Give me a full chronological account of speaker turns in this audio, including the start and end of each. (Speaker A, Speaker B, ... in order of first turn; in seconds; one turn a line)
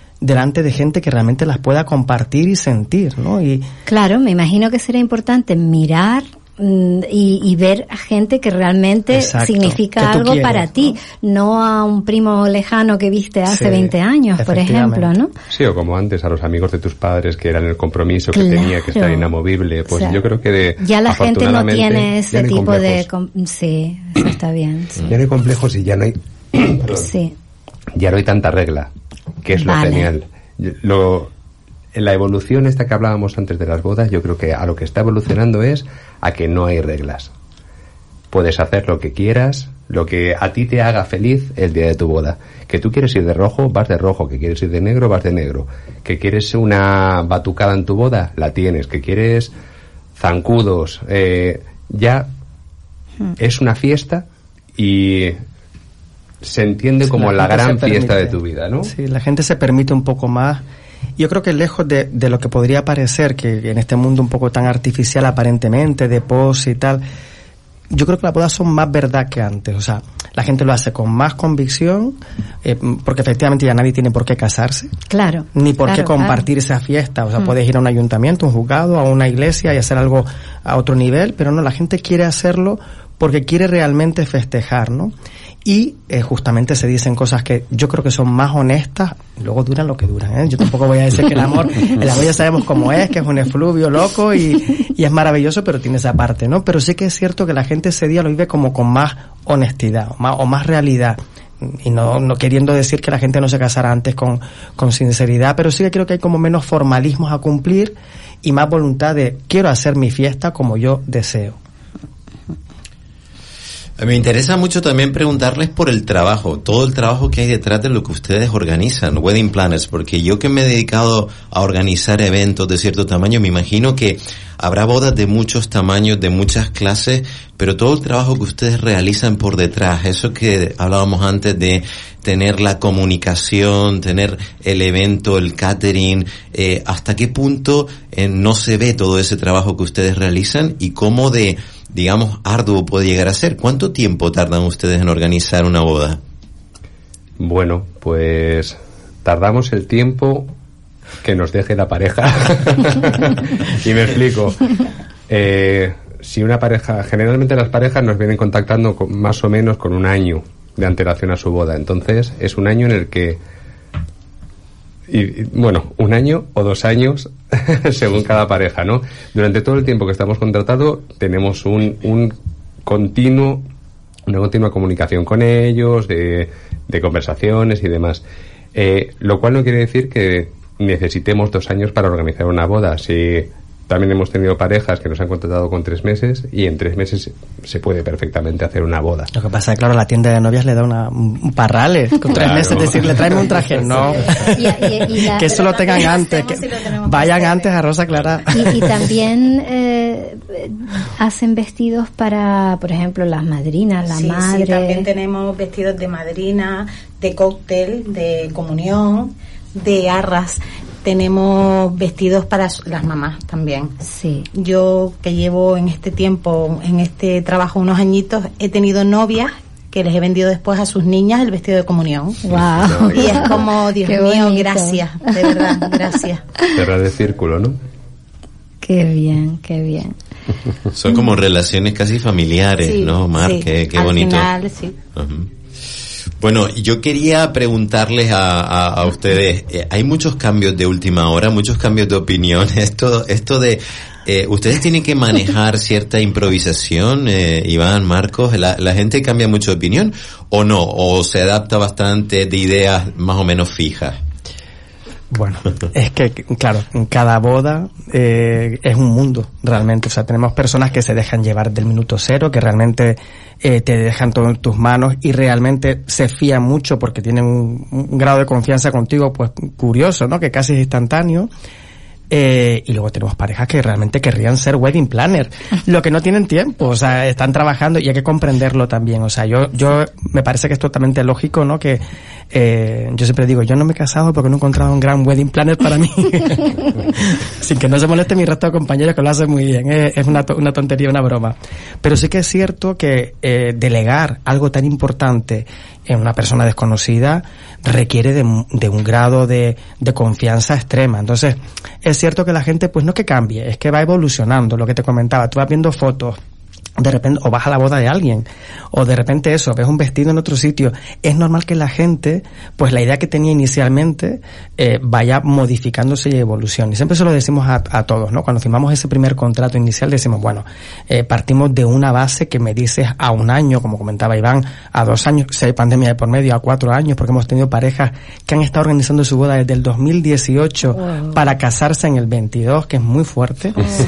Speaker A: 0.2-3.6
Speaker B: 3.9-15.3
Speaker A: 9.1-11.0
Speaker A: 13.5-15.1
Speaker C: 15.5-23.1
Speaker B: 18.3-19.3
Speaker B: 19.9-20.2
Speaker B: 20.8-25.1
Speaker C: 25.1-27.1
Speaker B: 26.9-27.3
Speaker C: 27.9-28.9
Speaker C: 29.4-31.3
Speaker B: 29.6-30.1
Speaker C: 31.9-37.3
Speaker C: 38.3-49.5
Speaker C: 50.1-52.3
Speaker C: 53.4-54.2
Speaker C: 54.8-55.4
Speaker C: 56.4-58.9
Speaker A: 57.1-60.6
Speaker A: 61.2-67.0
Speaker A: 67.9-74.9
Speaker B: 75.1-76.4
Speaker A: 75.5-85.1
Speaker A: 85.6-111.6
Speaker D: 114.0-146.2
Speaker C: 147.4-150.5
Speaker C: 151.2-154.7
Speaker C: 155.3-163.4
Speaker C: 165.1-173.6
Speaker C: 174.3-178.2
Speaker C: 178.7-189.3
Speaker A: 189.3-198.9
Speaker C: 192.3-194.5
Speaker B: 194.5-196.0
Speaker E: 195.4-197.7
Speaker B: 198.5-205.1
Speaker E: 204.1-213.9
Speaker B: 214.1-214.5
Speaker E: 214.6-222.4
Speaker B: 222.4-225.8
Speaker C: 222.8-223.4
Speaker E: 223.1-226.4
Speaker C: 226.7-227.8
Speaker B: 228.8-230.2
Speaker D: 230.9-234.5
Speaker E: 232.8-235.0
Speaker D: 235.1-235.5
Speaker D: 236.4-254.2
Speaker A: 255.3-271.5
Speaker A: 272.3-306.4
Speaker A: 307.0-333.9
Speaker B: 330.9-331.4